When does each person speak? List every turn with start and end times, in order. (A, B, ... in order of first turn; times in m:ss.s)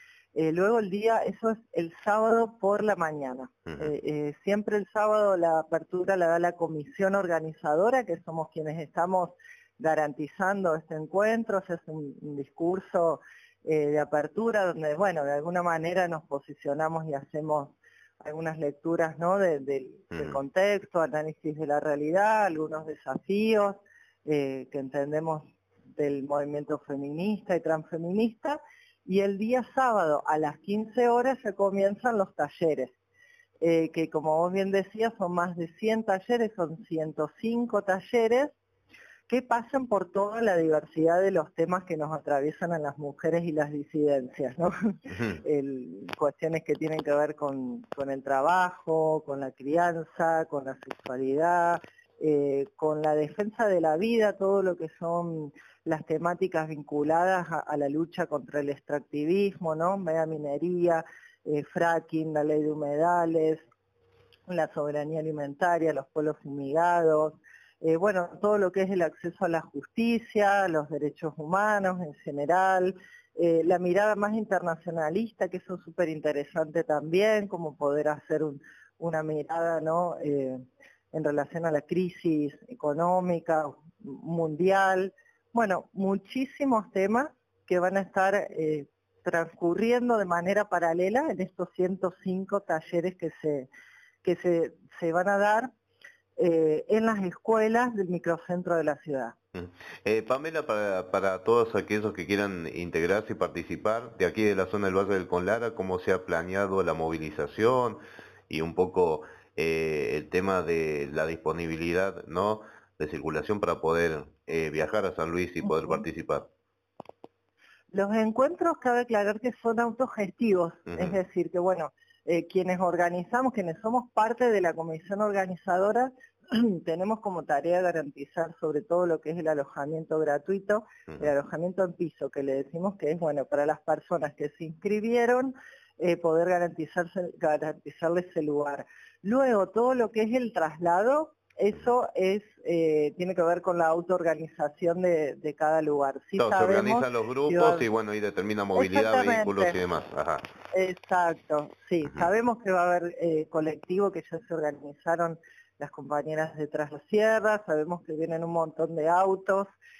0:00.3-0:32.9 A
0:20.1-0:20.4 B
0:33.6-0:38.6 A
0:39.3-1:03.6 A
1:04.5-1:33.7 A
1:34.2-1:35.7 A
1:36.4-1:39.4 A
1:39.5-1:56.5 B
1:55.6-1:56.0 A
1:57.9-2:27.8 A
2:26.4-2:30.4 B
2:28.8-2:29.8 A
2:30.7-2:39.7 A